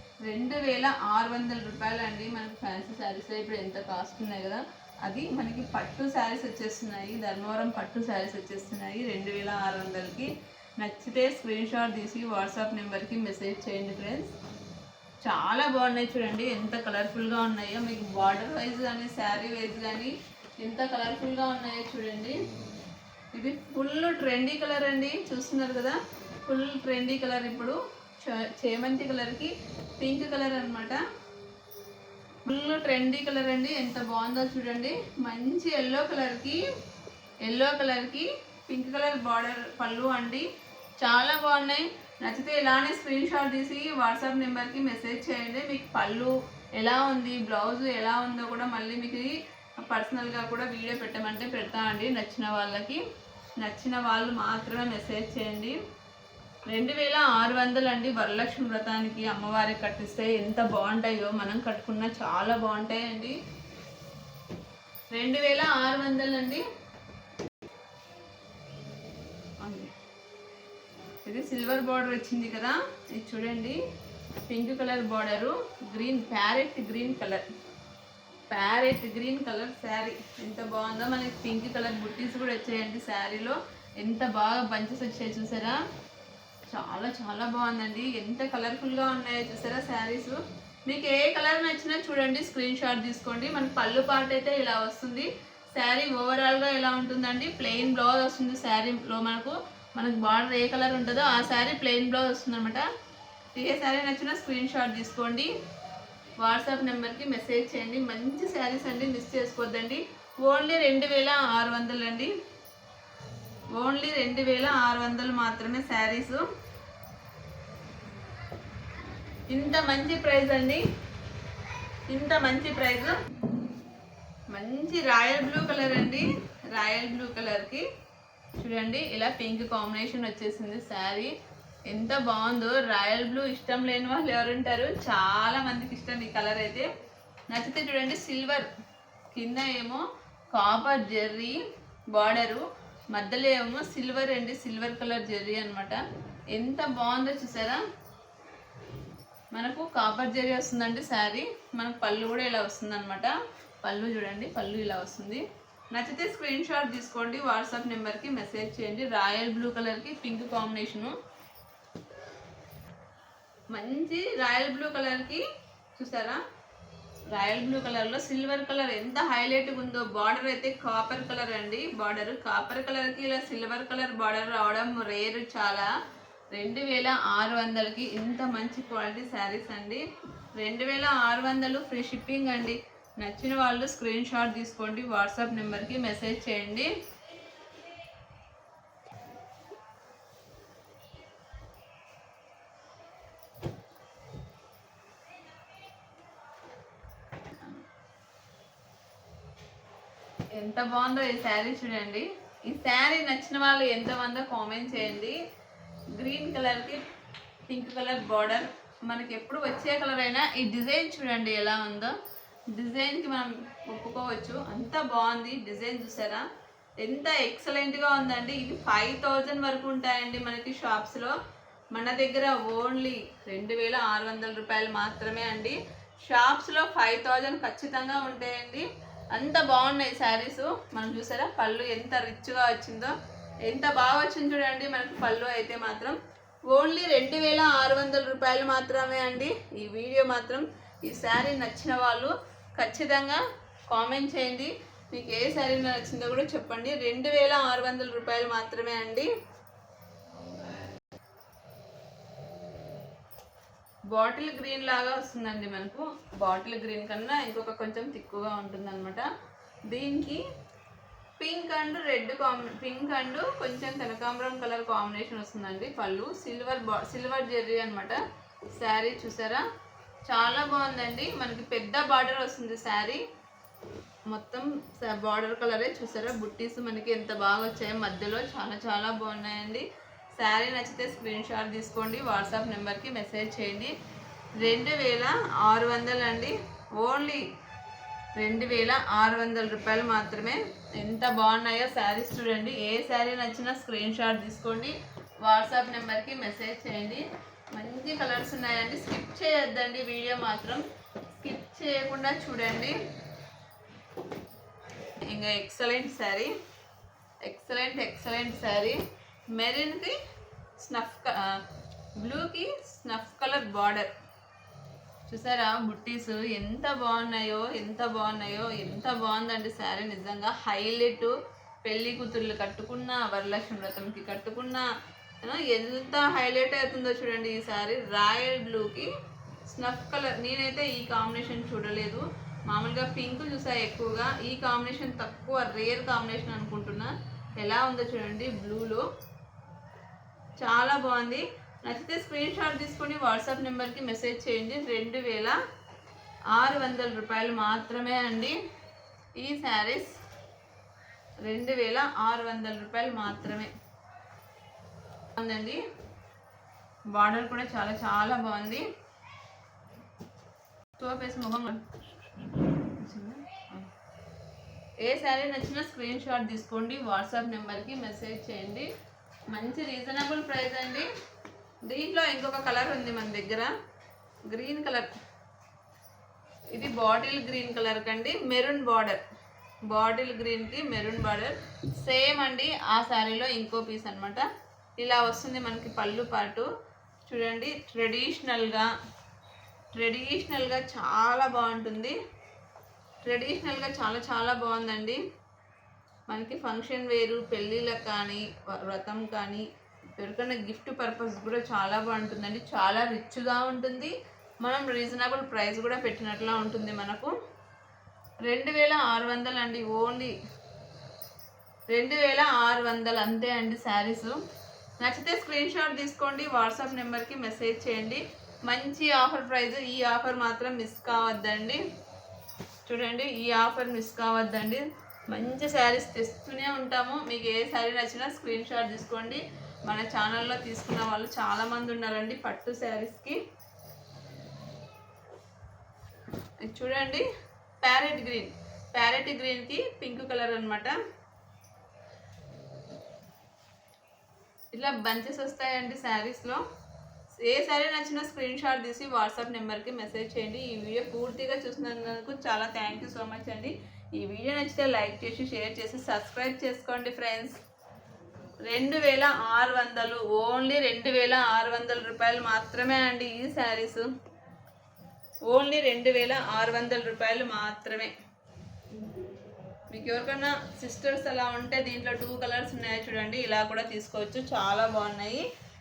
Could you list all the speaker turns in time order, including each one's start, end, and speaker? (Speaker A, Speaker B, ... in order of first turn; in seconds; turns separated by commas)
Speaker A: 0.2-14.3, Speaker A: 15.2-22.4, Speaker A: 23.3-31.0, Speaker A: 32.4-36.6, Speaker A: 37.5-40.5, Speaker A: 41.0-53.0, Speaker A: 53.6-55.8, Speaker A: 56.7-63.4, Speaker A: 65.1-66.6, Speaker A: 69.6-69.9, Speaker A: 71.2-73.8, Speaker A: 74.4-77.4, Speaker A: 78.5-85.8, Speaker A: 86.7-102.8, Speaker A: 103.5-105.5, Speaker A: 106.4-112.3, Speaker A: 113.7-116.4, Speaker A: 119.5-120.8, Speaker A: 122.1-123.1, Speaker A: 124.5-127.8, Speaker A: 128.6-131.3, Speaker A: 131.9-136.9, Speaker A: 137.5-138.7, Speaker A: 139.3-141.6, Speaker A: 142.1-147.8, Speaker A: 149.5-161.1, Speaker A: 163.7-165.4, Speaker A: 165.9-166.4, Speaker A: 167.3-175.9, Speaker A: 176.5-186.9, Speaker A: 200.5-205.4, Speaker A: 206.1-207.0, Speaker A: 207.7-212.1, Speaker A: 212.7-216.4, Speaker A: 217.0-221.3, Speaker A: 221.9-236.2, Speaker A: 236.7-249.3, Speaker A: 254.1-259.3, Speaker A: 259.9-260.4, Speaker A: 261.4-268.2, Speaker A: 268.8-269.6, Speaker A: 270.2-273.2, Speaker A: 274.3-279.8, Speaker A: 280.4-283.9, Speaker A: 284.6-287.4, Speaker A: 288.4-300.8, Speaker A: 301.4-303.0, Speaker A: 305.2-306.5, Speaker A: 307.4-309.0, Speaker A: 309.5-310.2, Speaker A: 310.8-311.6, Speaker A: 312.2-314.1, Speaker A: 315.3-324.9, Speaker A: 325.4-329.1, Speaker A: 329.7-339.0, Speaker A: 340.6-345.6, Speaker A: 346.5-348.6, Speaker A: 349.4-350.2, Speaker A: 351.4-353.7, Speaker A: 355.4-355.8, Speaker A: 357.1-358.9, Speaker A: 361.0-362.0, Speaker A: 362.6-363.9, Speaker A: 365.0-368.9, Speaker A: 369.5-371.1, Speaker A: 371.8-373.7, Speaker A: 374.5-375.1, Speaker A: 376.7-379.2, Speaker A: 379.9-384.5, Speaker A: 385.0-386.7, Speaker A: 387.2-388.9, Speaker A: 389.9-392.1, Speaker A: 393.2-395.2, Speaker A: 396.3-399.6, Speaker A: 400.2-407.3, Speaker A: 408.4-410.3, Speaker A: 411.9-414.4, Speaker A: 415.0-421.8, Speaker A: 422.9-433.4, Speaker A: 436.6-437.3, Speaker A: 437.8-441.0, Speaker A: 444.7-446.6, Speaker A: 447.4-457.6, Speaker A: 458.6-464.1, Speaker A: 465.5-468.1, Speaker A: 469.9-475.4